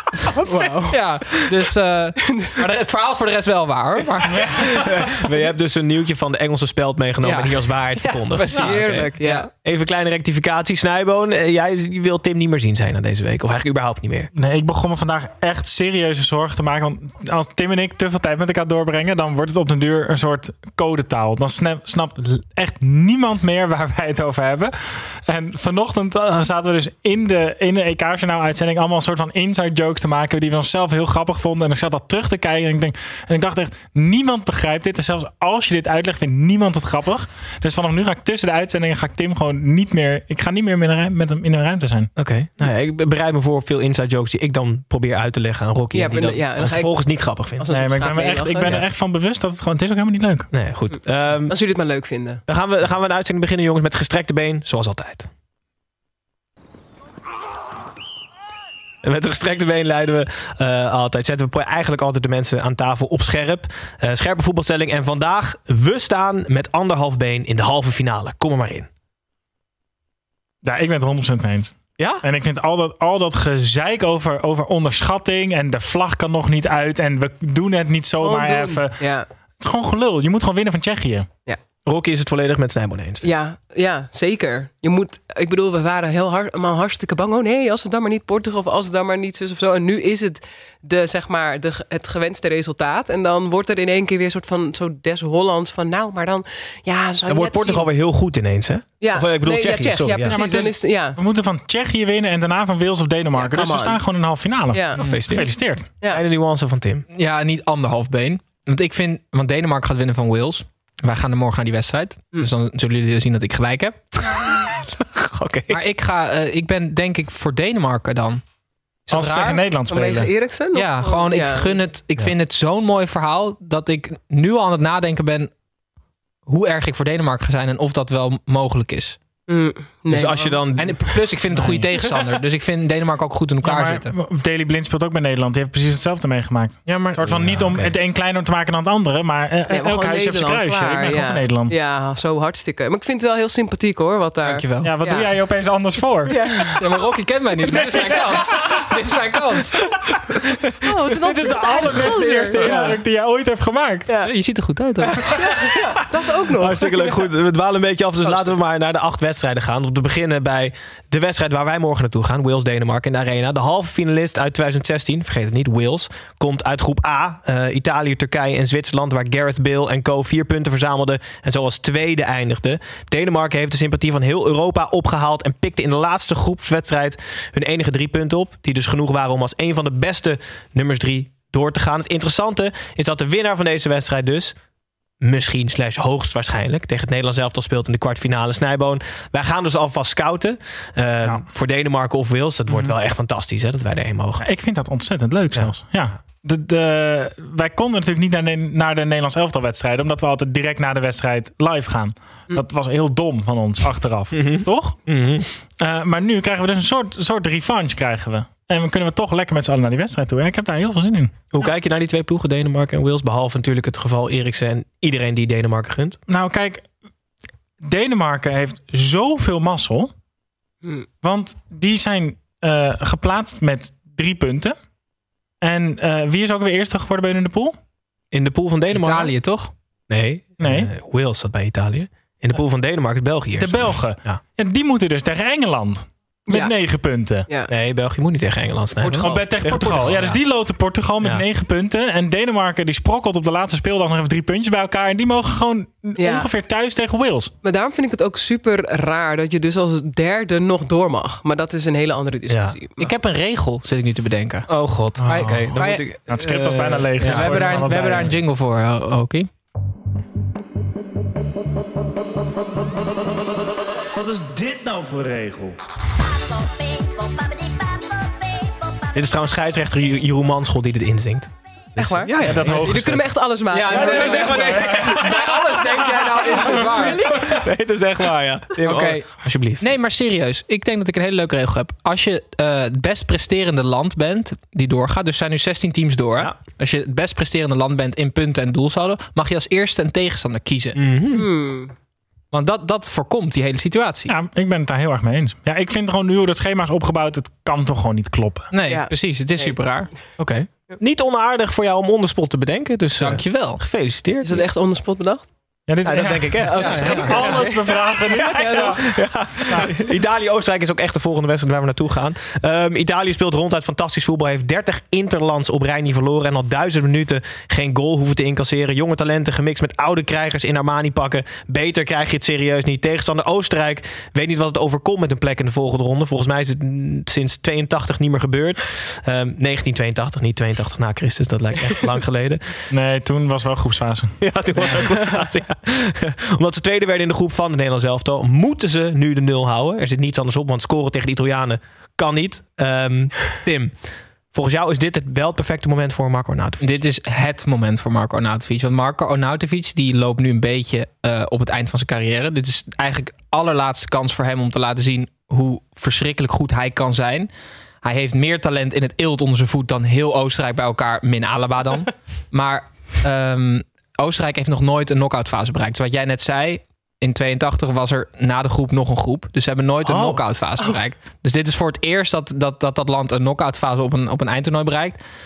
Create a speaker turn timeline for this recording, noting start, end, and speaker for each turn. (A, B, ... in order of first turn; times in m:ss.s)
0:00.3-0:01.4 A
0:00.5-0:04.6 B
0:04.4-0:14.3 C
0:04.4-0:04.8 D
0:07.2-0:09.5 B
0:08.5-0:09.5 A
0:14.3-0:42.1 D
0:42.2-0:47.6 C
0:45.9-0:48.8 A
0:47.7-0:50.5 D
0:50.5-0:51.6 C
0:50.9-0:52.4 A
0:52.5-0:55.3 C
0:59.0-1:08.9 C
1:10.6-1:19.0 D
1:12.0-1:12.2 C
1:18.2-1:19.3 A
1:19.6-1:21.3 D
1:21.8-1:23.3 C
1:23.2-1:37.8 A
1:37.3-1:40.4 C
1:39.0-1:41.2 A
1:40.3-1:45.9 D
1:43.3-1:44.0 A
1:44.7-1:45.0 A
1:45.0-1:47.0 C
1:47.1-1:54.0 B
1:54.5-1:55.8 C
1:55.7-1:58.4 B
1:59.1-1:59.6 B
1:59.1-2:00.3 D
1:59.9-2:01.8 A
2:00.7-2:05.5 B
2:06.4-2:09.2 B
2:09.5-2:10.6 A
2:10.1-2:11.1 C
2:10.8-2:14.1 B
2:11.5-2:12.1 D
2:13.6-2:21.7 D
2:16.8-2:17.5 B
2:17.2-2:17.9 C
2:19.7-2:25.3 A
2:24.4-2:24.9 B
2:24.8-2:26.4 D
2:26.3-2:29.8 A
2:26.7-2:29.6 B
2:27.7-2:28.5 D
2:30.8-2:32.9 A
2:31.2-2:34.1 D
2:34.2-2:35.3 B
2:35.4-2:37.2 A
2:36.2-3:04.6 C
3:05.2-3:14.4 C
3:14.4-3:25.0 D
3:24.3-3:25.5 C
3:25.8-3:31.5 D
3:31.5-3:36.2 C
3:36.3-3:36.8 D
3:37.8-3:40.1 D
3:41.2-3:44.8 D
3:45.6-3:47.8 D
3:48.3-3:49.3 C
3:48.9-3:49.7 B
3:50.1-3:54.4 C
3:50.6-3:50.9 D
3:53.6-3:57.5 D
3:56.5-3:56.7 A
3:57.7-4:00.4 C
3:59.1-4:07.5 D
4:06.2-4:06.5 A
4:07.6-4:13.1 A
4:12.5-4:12.7 C
4:13.0-4:16.0 B
4:14.7-4:17.8 C
4:15.2-4:15.7 D
4:16.3-4:18.4 D
4:17.2-4:19.5 B
4:24.1-4:25.8 D
4:29.1-4:33.0 C
4:32.0-4:37.7 A
4:32.4-4:36.7 D
4:33.7-4:37.2 B
4:33.9-4:35.5 C
4:37.3-4:39.9 C
4:38.8-4:51.0 B
4:50.9-4:51.5 C
4:51.3-4:51.9 A
4:52.5-4:54.3 B
4:54.3-4:58.7 D
4:58.7-5:00.1 B
4:58.9-4:59.8 A
5:00.4-5:04.6 C
5:03.2-5:03.8 B
5:04.4-5:05.5 A
5:05.9-5:09.0 D
5:06.0-5:32.8 C
5:06.6-5:09.2 A
5:06.8-5:07.4 B
5:09.7-5:09.9 A
5:32.9-5:35.0 D
5:34.4-5:44.0 C
5:44.5-5:46.8 C
5:46.8-5:57.5 B
5:58.0-6:15.2 B
6:10.0-6:10.4 C